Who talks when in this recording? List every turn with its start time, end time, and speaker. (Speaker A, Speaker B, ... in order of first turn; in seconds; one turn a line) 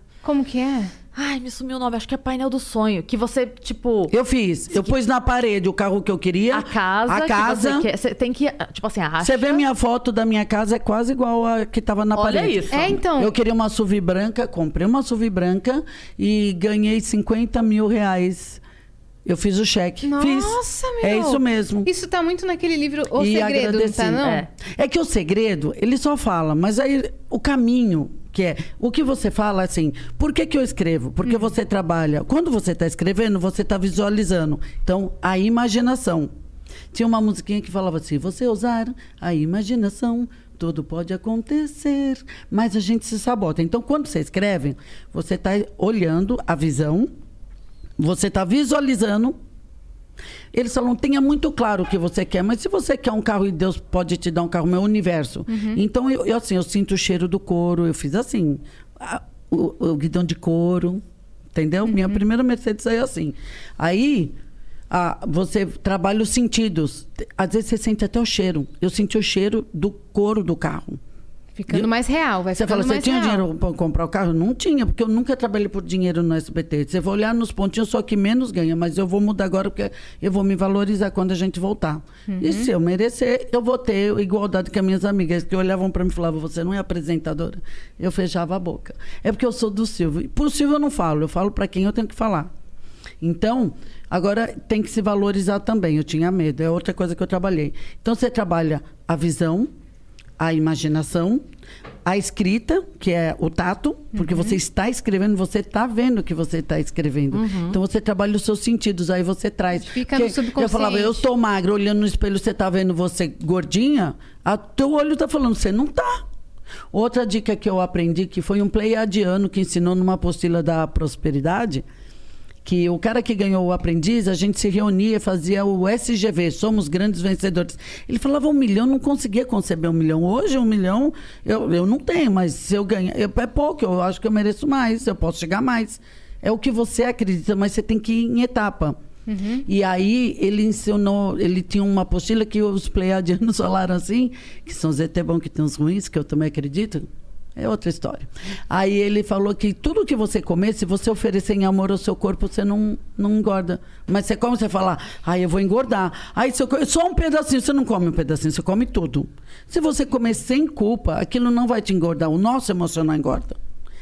Speaker A: 0.2-0.9
Speaker B: 1.1-4.1
Speaker C: 4.1-7.9
Speaker B: 6.5-9.6
Speaker C: 9.2-18.6
Speaker B: 12.1-13.0
Speaker A: 12.7-13.3
Speaker C: 19.3-21.9
Speaker A: 20.0-24.5
Speaker C: 23.2-36.3
Speaker C: 36.9-47.1
Speaker C: 48.0-49.4
Speaker C: 50.5-61.0
Speaker A: 55.5-55.8
Speaker C: 61.5-64.3
Speaker A: 61.9-62.2
Speaker C: 64.9-71.0
Speaker A: 71.6-73.4
Speaker C: 72.5-92.5
Speaker A: 82.3-82.7
Speaker C: 93.2-99.7
Speaker C: 100.4-101.4
Speaker C: 102.0-116.2
Speaker A: 104.2-104.5
Speaker B: 107.3-107.8
Speaker A: 109.8-111.2
Speaker C: 116.9-121.8
Speaker C: 122.7-139.0
Speaker A: 139.3-139.7
Speaker C: 139.7-163.6